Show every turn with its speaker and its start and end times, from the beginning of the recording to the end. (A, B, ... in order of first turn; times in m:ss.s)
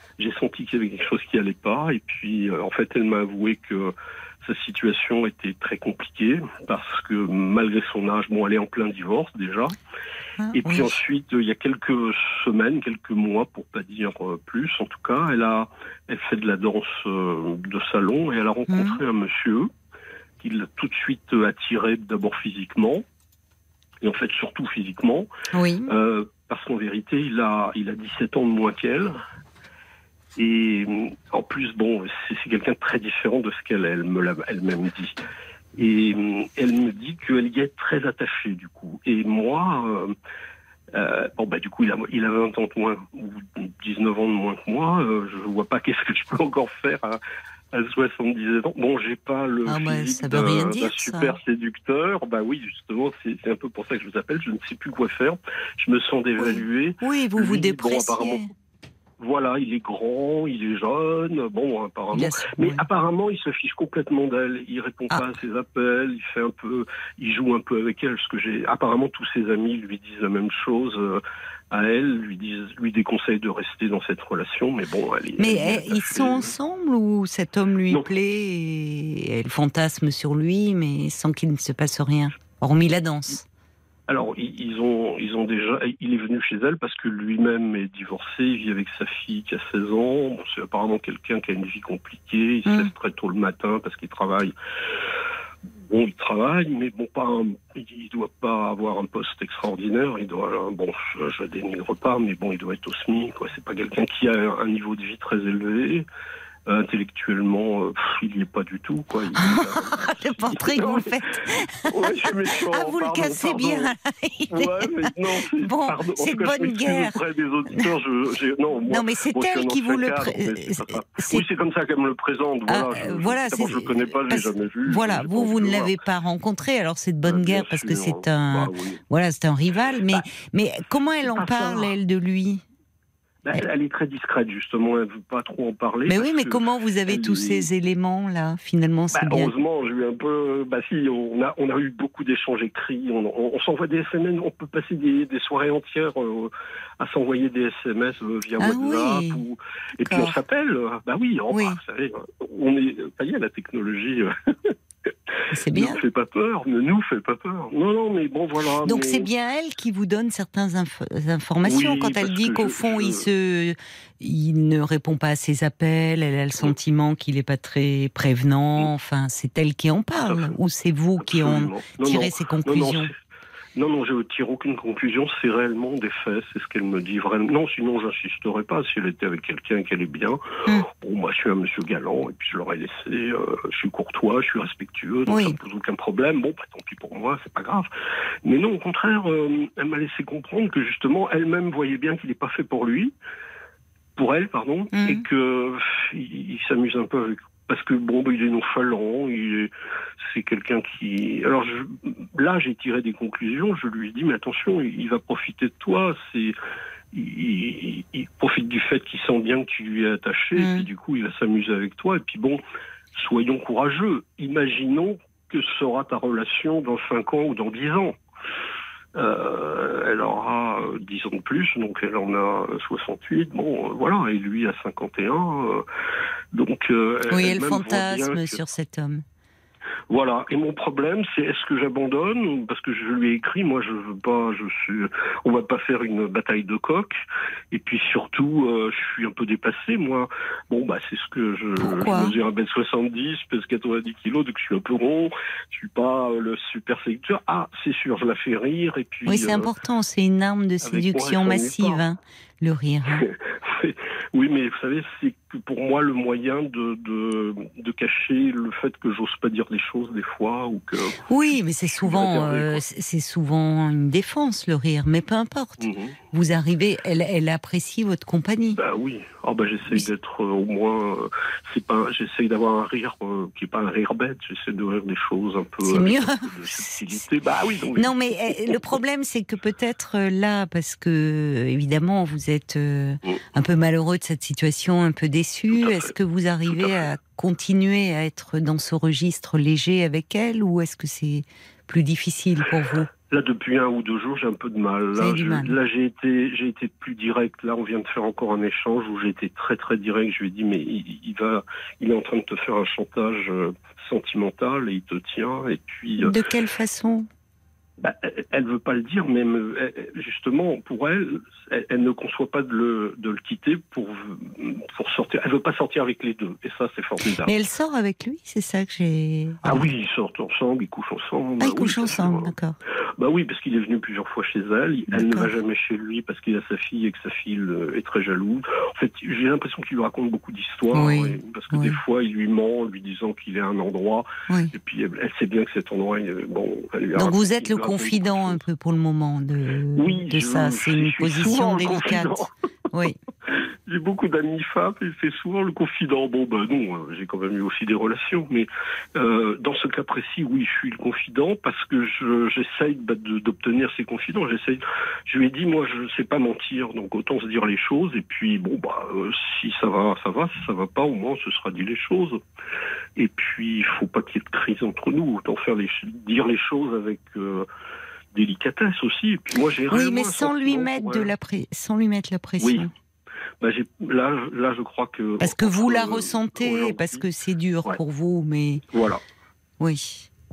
0:00.2-0:09.8 A
0:10.4-0:10.9 B
0:10.5-0:19.7 A
0:18.7-0:19.0 B
0:20.4-0:23.1 A
0:24.0-0:25.3 A
0:25.5-0:25.9 B
0:25.9-0:29.2 A
0:30.4-0:35.2 A
0:35.8-0:40.2 A
0:40.9-0:47.2 A
0:47.7-0:58.5 A
0:49.6-0:51.4 B
0:56.4-0:58.5 B
0:59.2-1:16.6 A
1:02.1-1:02.8 B
1:15.4-1:23.4 B
1:24.1-1:34.6 A
1:32.7-1:32.9 B
1:35.8-1:46.1 A
1:46.7-1:53.9 A
1:49.4-1:51.9 B
1:52.7-1:57.2 B
1:54.5-2:06.0 A
1:58.9-2:01.4 B
2:02.7-2:12.6 B
2:07.2-2:09.0 A
2:11.3-2:11.9 A
2:13.4-2:17.7 A
2:16.1-2:19.5 B
2:19.1-2:35.1 A
2:28.6-2:29.4 B
2:30.0-2:30.4 B
2:31.5-2:31.8 B
2:35.5-2:36.0 B
2:35.7-2:39.3 A
2:38.8-2:53.1 B
2:41.6-2:43.3 A
2:50.2-2:50.6 A
2:51.2-2:53.2 A
2:53.8-3:07.9 A
3:05.3-3:05.6 B
3:08.4-3:13.1 A
3:14.2-3:26.6 A
3:14.9-3:15.2 B
3:27.1-3:32.6 A
3:30.6-3:30.9 B
3:33.1-3:38.2 A
3:39.2-3:45.8 A
3:46.5-3:48.6 A
3:47.3-3:49.2 B
3:50.1-4:09.7 A
4:01.8-4:02.3 B
4:09.2-4:13.3 B
4:10.8-4:12.0 A
4:13.2-4:21.2 A
4:21.3-4:28.8 B
4:22.0-4:22.8 A
4:25.8-4:26.2 A
4:28.8-4:38.8 A
4:35.8-4:37.2 B
4:38.0-4:53.1 B
4:45.7-4:46.1 A
4:46.7-4:47.1 A
4:53.3-5:06.4 A
4:55.2-4:55.8 B
5:06.2-5:07.3 B
5:08.0-5:17.5 A
5:17.5-5:19.8 B
5:19.6-5:22.5 A
5:21.6-5:22.8 B
5:23.2-5:38.6 A
5:25.1-5:25.5 B
5:30.9-5:32.0 B
5:34.5-5:34.7 B
5:37.2-5:42.4 B
5:39.9-5:42.5 A
5:42.9-5:43.2 B
5:43.5-6:02.4 A
6:03.2-6:07.7 A
6:08.3-6:11.3 A
6:09.9-6:12.9 B
6:12.6-6:12.9 A
6:13.6-6:17.2 A
6:15.4-6:18.8 B
6:18.9-6:19.2 A
6:19.8-6:20.3 B